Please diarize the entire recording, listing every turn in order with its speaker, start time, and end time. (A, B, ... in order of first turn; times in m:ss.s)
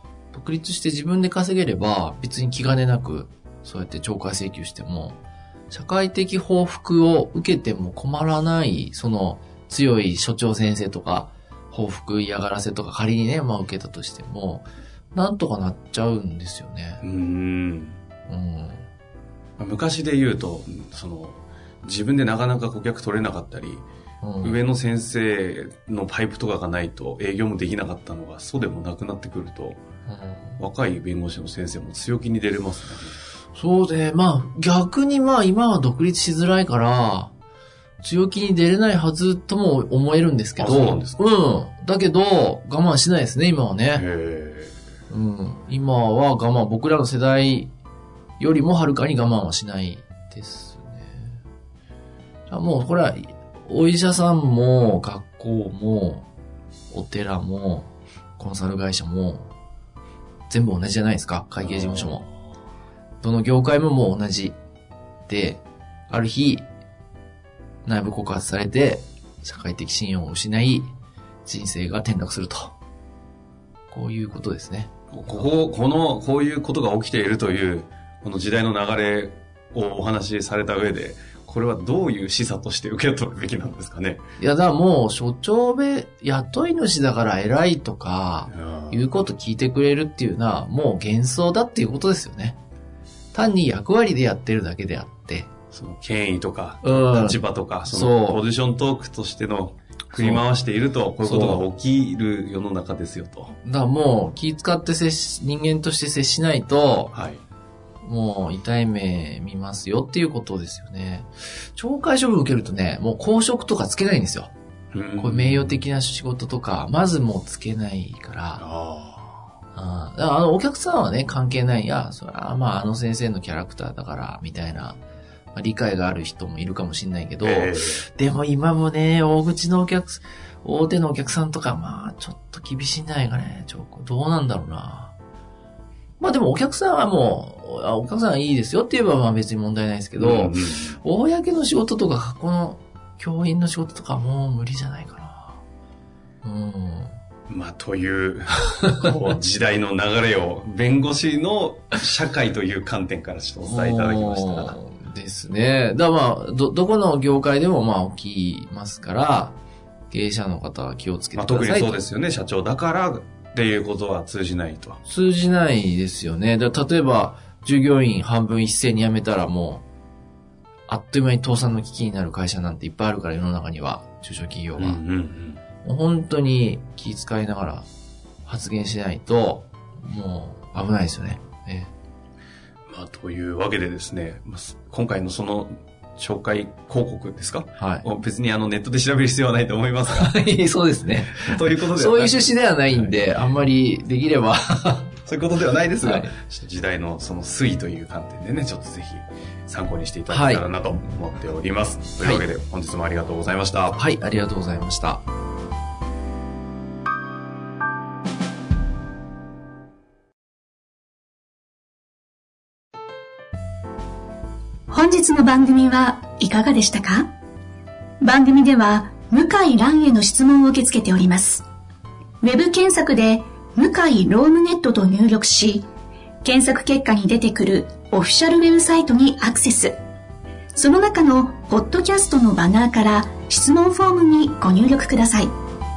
0:00.3-0:05.2 A
0:05.7-0:17.0 A
0:17.0-0:18.0 B
0:18.3-0:18.8 A
0:19.6-0:23.8 B
0:24.2-0:24.6 A
0:24.4-0:29.8 B
0:30.1-0:30.6 A
0:30.6-0:33.2 B
0:33.5-0:37.3 A
0:38.0-0:44.0 A
0:40.6-0:41.2 B
0:43.9-0:44.7 B
0:45.1-0:47.7 A
0:48.4-0:51.4 A
0:52.5-0:56.2 A
0:56.9-0:59.5 A
1:00.5-1:02.3 A
1:01.8-1:02.2 B
1:03.2-1:04.6 A
1:05.3-1:06.6 A
1:07.8-1:10.9 A
1:11.4-1:12.7 A
1:13.9-1:14.9 A
1:15.1-1:24.2 B
1:24.4-1:32.6 A
1:28.5-1:29.1 B
1:33.3-1:35.5 A
1:35.7-1:43.5 B
1:36.8-1:38.4 A
1:40.1-1:40.4 A
1:41.2-1:41.6 A
1:43.6-1:47.1 A
1:47.1-1:47.4 B
1:48.0-1:54.5 A
1:54.9-1:55.8 B
1:55.2-1:58.6 A
1:58.6-1:59.4 B
1:59.7-2:05.0 A
2:05.5-2:15.1 A
2:07.4-2:08.0 B
2:16.2-2:25.6 A
2:20.2-2:21.0 B
2:26.4-2:27.2 A
2:27.5-2:34.8 B
2:33.6-2:39.6 A
2:40.1-2:42.0 A
2:41.4-2:45.0 B
2:45.0-2:49.8 A
2:50.9-2:55.0 A
2:54.8-2:55.6 B
2:55.8-2:57.8 A
2:58.4-3:01.9 A
3:02.9-3:10.4 B
3:07.8-3:08.0 A
3:10.1-3:15.1 A
3:11.3-3:13.2 B
3:15.2-3:24.0 B
3:16.0-3:16.3 A
3:20.3-3:20.6 A
3:23.9-3:25.2 A
3:34.9-3:37.3 C
3:38.2-3:41.6 C
3:42.4-3:45.9 C
3:46.4-3:50.0 C
3:50.7-3:55.6 C